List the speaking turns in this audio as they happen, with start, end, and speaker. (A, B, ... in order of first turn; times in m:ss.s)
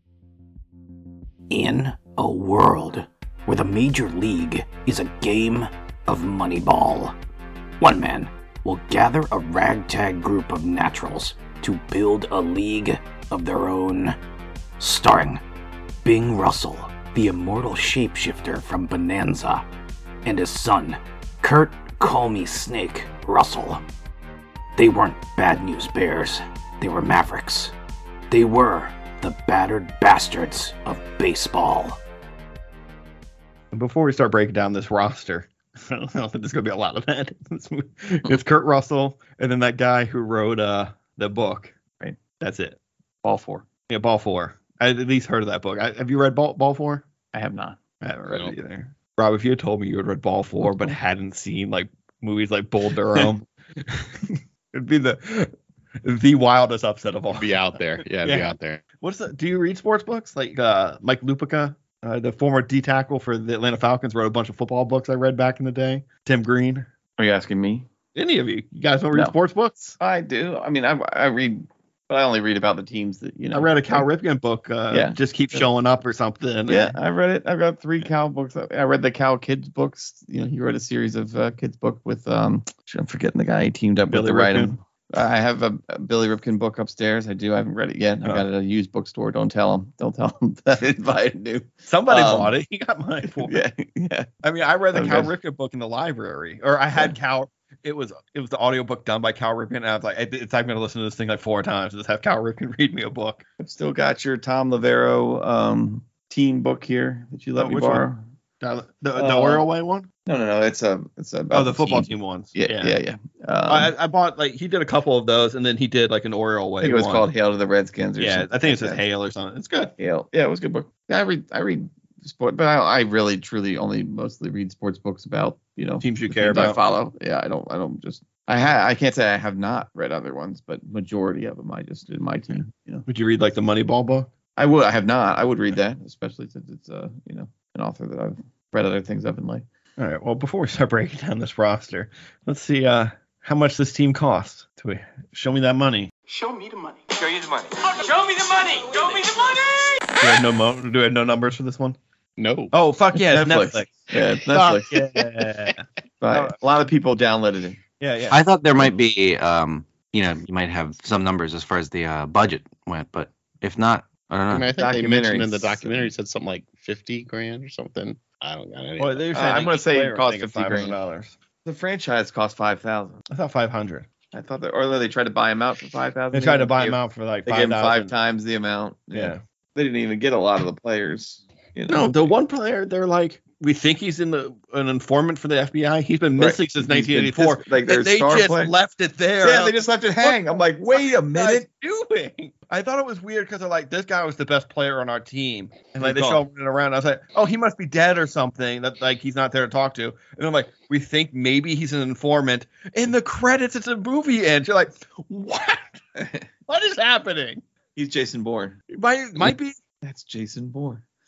0:01.5-0:07.2 A
0:07.8-0:14.2 A
0:14.8-0:15.4 A
0:16.0-0:19.6 A
0:20.2-0:23.8 A
0:24.8-0:27.7 A
0:28.3-0:32.0 A
0:33.7-0:41.7 B
0:42.4-0:42.8 B
0:43.2-0:43.6 C
0:43.9-0:47.1 B
0:47.3-0:47.8 C
0:48.0-0:55.5 B
0:56.0-1:06.9 B
0:57.3-0:58.8 D
1:07.2-1:07.9 C
1:08.1-1:10.0 B
1:10.0-1:14.1 C
1:13.5-1:17.0 B
1:14.9-1:15.7 C
1:16.7-1:32.6 C
1:24.1-1:24.8 B
1:31.9-1:33.6 B
1:33.3-1:34.3 C
1:34.4-1:43.4 B
1:34.9-1:35.3 C
1:43.6-1:48.2 C
1:47.6-1:48.1 B
1:48.6-1:50.1 B
1:49.2-1:49.6 C
1:50.3-1:53.9 C
1:51.5-1:53.0 B
1:53.7-1:57.3 B
1:56.8-1:59.0 C
1:58.2-1:59.9 B
2:00.0-2:13.1 C
2:06.0-2:06.8 B
2:13.1-2:14.3 B
2:14.6-2:19.6 C
2:20.0-2:26.1 B
2:26.3-2:30.2 E
2:30.2-2:32.0 B
2:32.4-2:32.7 D
2:32.7-2:36.6 B
2:33.3-2:34.9 C
2:34.9-2:35.7 D
2:36.2-2:37.8 C
2:38.0-2:38.4 B
2:38.3-2:44.7 F
2:44.5-2:49.7 D
2:44.8-2:46.1 C
2:49.0-2:51.4 B
2:49.3-2:51.0 C
2:51.6-2:53.2 C
2:53.3-2:54.1 B
2:54.3-3:02.3 C
2:56.3-2:58.1 B
2:59.1-2:59.4 B
3:01.9-3:26.0 B
3:06.4-3:08.7 C
3:09.4-3:11.7 C
3:16.0-3:16.4 C
3:26.2-3:26.5 C
3:26.7-3:27.6 B
3:28.0-3:28.8 C
3:28.9-3:29.8 B
3:30.0-3:31.0 C